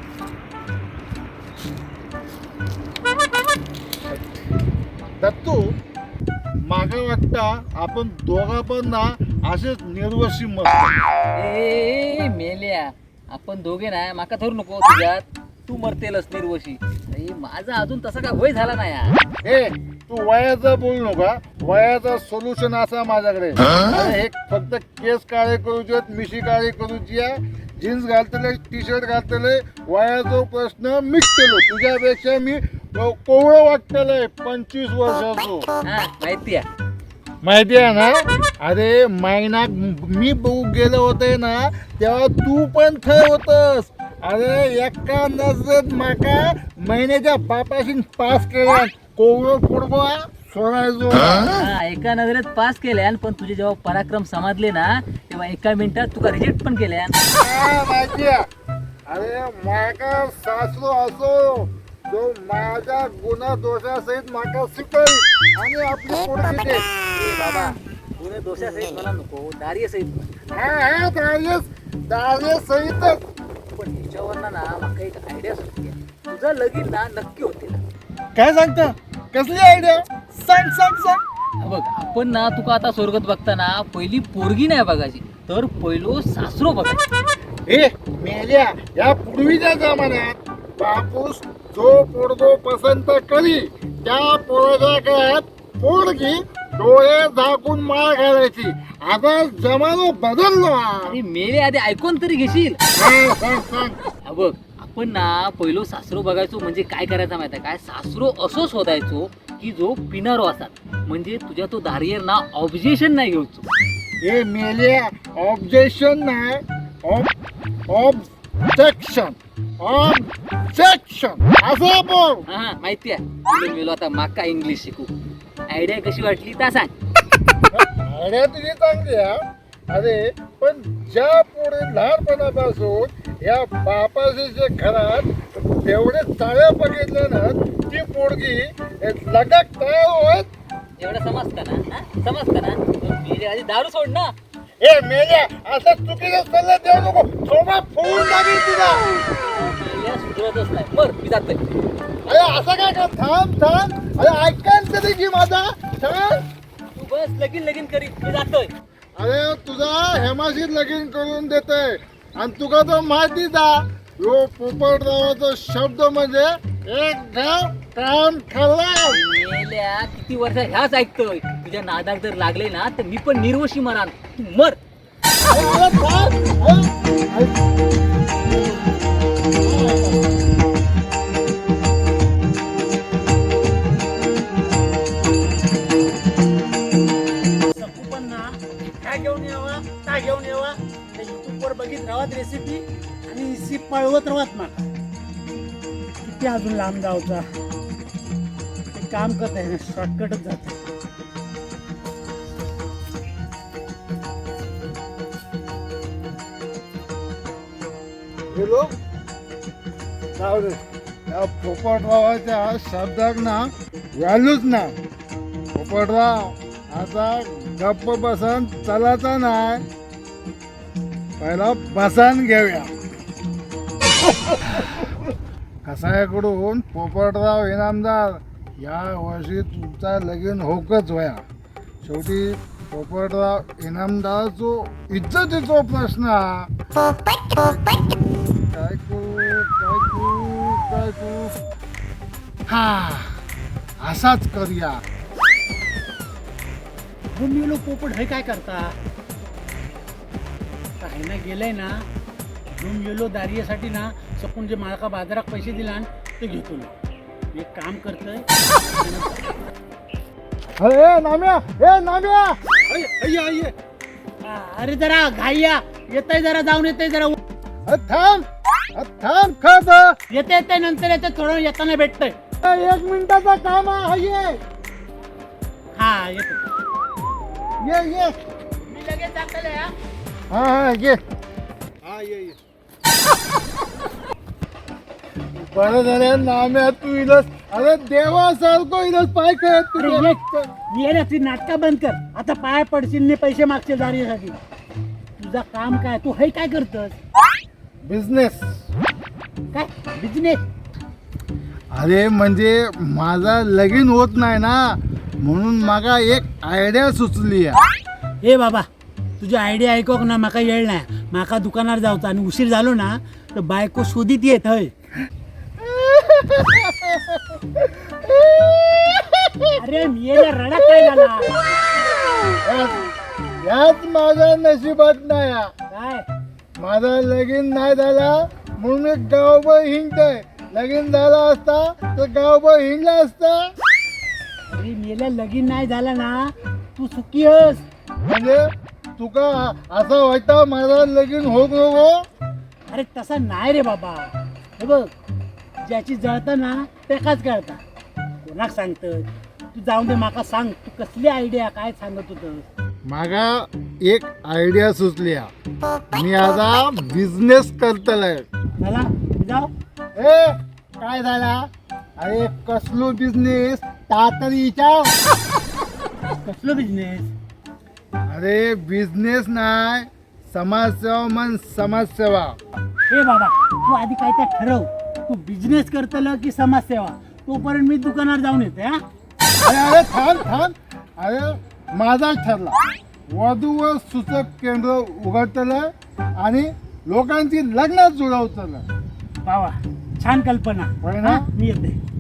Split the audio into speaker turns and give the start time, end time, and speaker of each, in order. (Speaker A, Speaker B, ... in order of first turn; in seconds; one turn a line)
Speaker A: 5.2-5.6
Speaker A: 6.7-11.0
Speaker B: 11.4-19.1
Speaker A: 19.4-35.7
Speaker B: 35.9-36.6
Speaker A: 37.4-51.5
Speaker B: 51.5-57.2
Speaker A: 57.3-58.5
Speaker A: 59.1-66.8
Speaker B: 67.1-70.3
Speaker A: 70.5-73.2
Speaker B: 73.8-77.8
Speaker A: 78.3-81.2
Speaker B: 81.6-87.0
Speaker A: 87.7-101.1
Speaker B: 101.1-102.8
Speaker A: 103.0-104.0
Speaker B: 104.3-113.7
Speaker A: 114.2-117.3
Speaker A: 117.9-122.4
Speaker B: 122.5-125.1
Speaker B: 125.7-126.9
Speaker A: 127.7-129.4
Speaker A: 129.9-140.5
Speaker B: 141.0-144.3
Speaker A: 144.8-149.1
Speaker B: 149.5-151.7
Speaker A: 152.2-156.5
Speaker B: 157.0-158.7
Speaker A: 159.2-169.2
Speaker B: 169.1-174.8
Speaker A: 175.4-177.6
Speaker A: 179.7-180.1
Speaker C: 187.7-194.9
Speaker C: 196.2-197.4
Speaker C: 198.9-200.8
Speaker A: 208.5-208.9
Speaker A: 210.4-214.9
Speaker A: 215.8-219.8
Speaker A: 221.4-222.9
Speaker A: 224.5-225.1
Speaker A: 225.8-231.4
Speaker A: 232.0-236.7
Speaker A: 237.5-241.6
Speaker A: 242.7-243.4
Speaker A: 244.0-245.0
Speaker C: 247.3-249.0
Speaker C: 251.0-252.1
Speaker C: 252.8-256.9
Speaker C: 257.5-259.5
Speaker A: 260.8-263.7
Speaker C: 264.4-267.4
Speaker A: 267.9-268.4
Speaker A: 269.0-270.1
Speaker C: 270.3-272.4
Speaker A: 272.6-274.6
Speaker C: 276.0-276.6
Speaker A: 277.8-278.4
Speaker C: 278.8-279.9
Speaker A: 280.5-281.2
Speaker A: 282.0-282.6
Speaker A: 285.6-290.6
Speaker C: 290.0-294.6
Speaker C: 295.4-297.2
Speaker A: 298.1-298.6
Speaker C: 299.7-300.6
Speaker A: 301.9-307.8
Speaker C: 308.4-308.9
Speaker C: 309.4-314.9
Speaker A: 315.8-319.7
Speaker C: 319.8-321.5
Speaker A: 322.6-323.0
Speaker A: 323.6-325.7
Speaker C: 325.9-326.3
Speaker A: 326.8-333.6
Speaker C: 334.7-337.8
Speaker A: 338.3-338.6
Speaker A: 339.2-342.2
Speaker C: 342.9-345.1
Speaker C: 345.8-347.8
Speaker C: 348.4-352.7
Speaker A: 353.1-355.5
Speaker A: 356.1-358.5
Speaker C: 358.8-359.7
Speaker A: 360.2-365.1
Speaker C: 366.4-367.3
Speaker A: 368.3-372.6
Speaker C: 373.1-379.0
Speaker A: 379.6-382.8
Speaker A: 383.3-388.9
Speaker C: 389.4-392.0
Speaker A: 391.0-391.5